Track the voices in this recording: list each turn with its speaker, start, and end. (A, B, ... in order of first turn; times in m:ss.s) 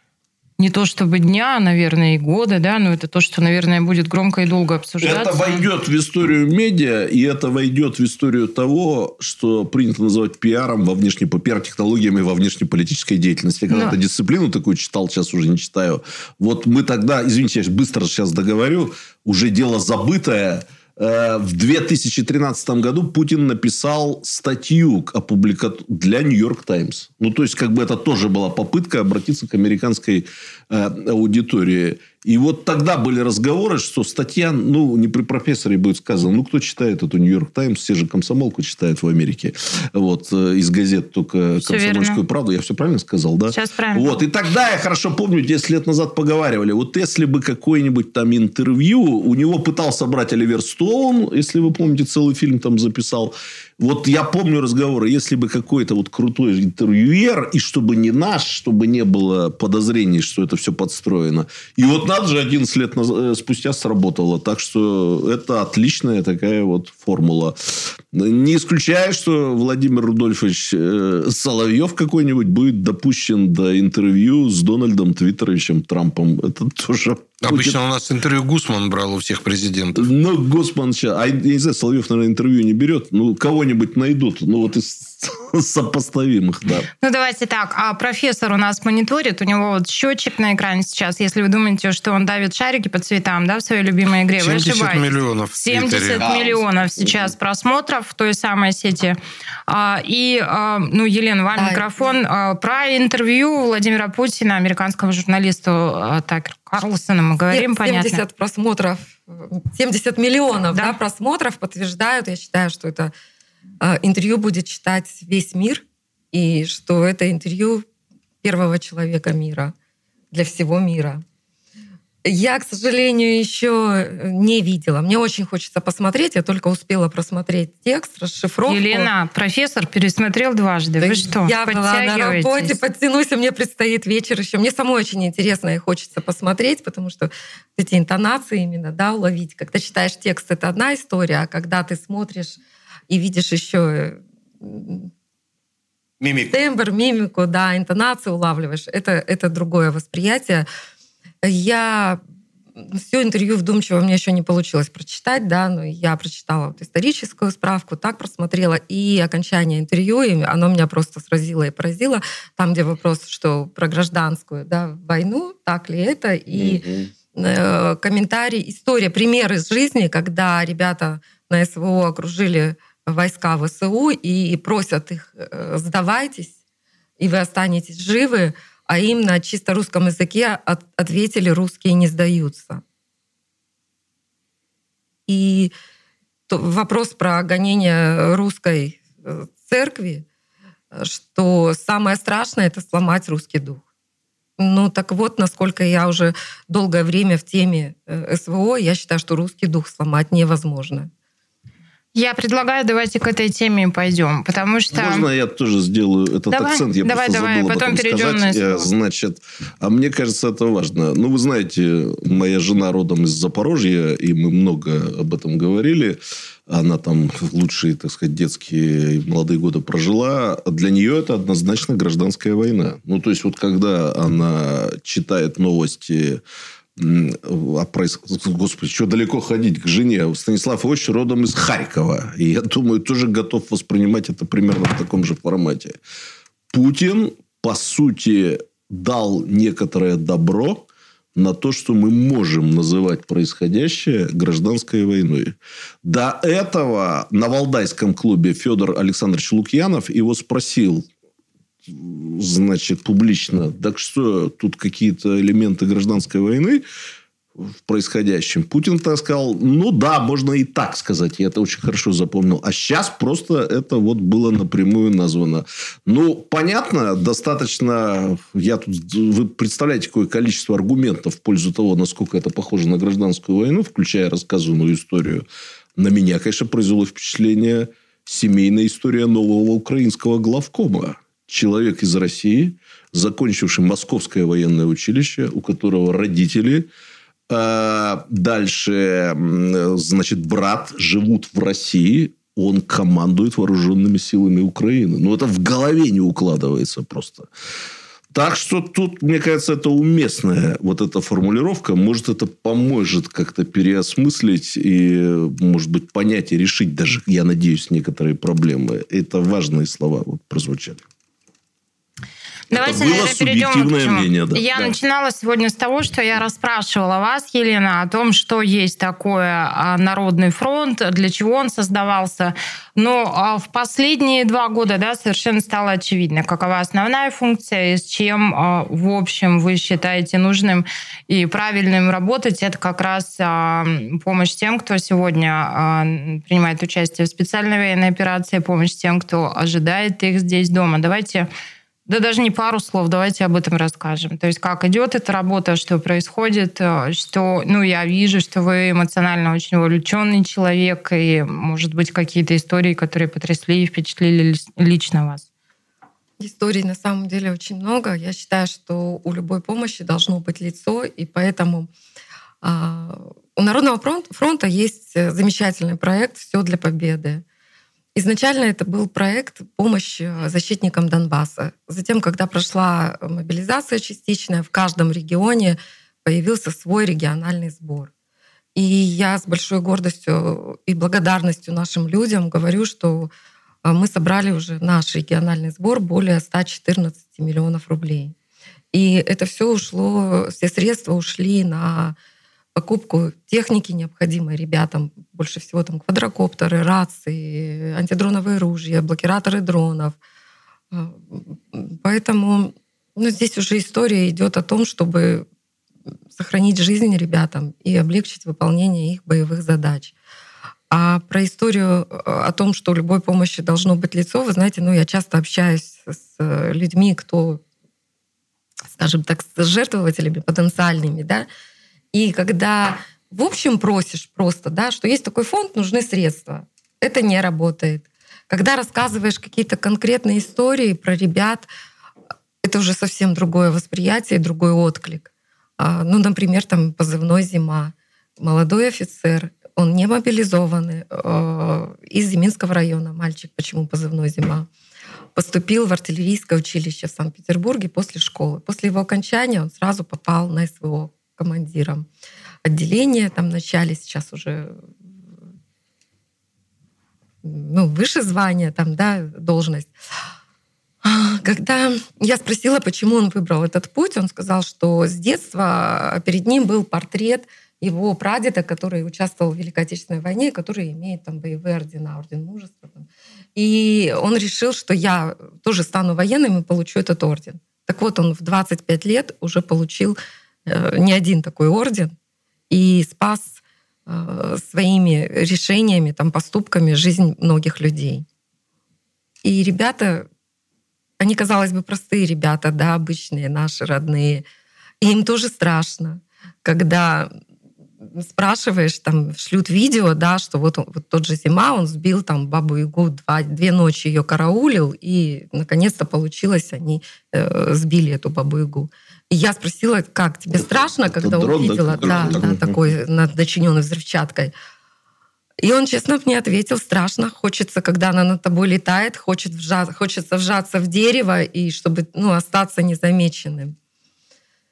0:00.6-0:05.6 A
0:05.0-1:17.8 B
0:41.6-0:42.2 A
0:43.5-0:44.2 A
1:17.4-1:20.1 C
1:20.0-1:26.9 B
1:27.0-1:39.2 A
1:34.4-1:36.2 C
1:36.2-1:37.3 B
1:39.7-1:48.2 A
1:41.6-1:42.1 D
1:47.5-1:53.1 D
1:53.8-1:57.9 D
1:58.4-1:59.7 D
2:00.3-2:01.2 D
2:02.2-2:09.1 D
2:08.7-2:12.8 A
2:11.0-2:25.1 D
2:26.4-2:30.7 D
2:31.4-2:32.2 D
2:32.8-2:56.6 D
2:46.5-2:47.1 B
2:57.2-3:02.8 D
3:05.3-3:05.7 D
3:06.5-3:10.3 D
3:10.9-3:13.8 D
3:14.6-3:21.1 D
3:22.1-3:25.3 A
3:24.9-3:46.4 B
3:26.5-3:28.9 A
3:47.0-3:56.0 B
3:56.7-4:11.1 B
4:11.9-4:16.8 B
4:17.6-4:35.5 B
4:36.0-4:46.9 B
4:47.5-4:57.5 B
4:58.3-5:11.0 B
5:12.7-5:41.5 A
5:12.7-5:15.0 B
5:42.1-5:55.5 A
5:56.4-6:01.9 D
6:02.6-6:07.4 D
6:08.2-6:18.1 D
6:18.8-6:23.3 D
6:23.8-6:28.4 D
6:28.9-6:32.2 D
6:32.8-6:40.2 D
6:40.9-6:45.5 D
6:46.3-6:50.1 D
6:50.9-6:57.6 D
6:59.0-7:01.5 D
7:02.1-7:11.7 D
7:12.6-7:24.7 D
7:25.4-7:32.1 D
7:32.6-7:34.8 D
7:37.4-7:39.9 D
7:41.0-8:02.1 D
8:02.7-8:08.3 D
8:09.4-8:10.3 D
8:11.2-8:14.5 D
8:15.0-8:17.3 D
8:18.0-8:34.5 D
8:30.6-8:32.8 B
8:35.6-8:43.8 D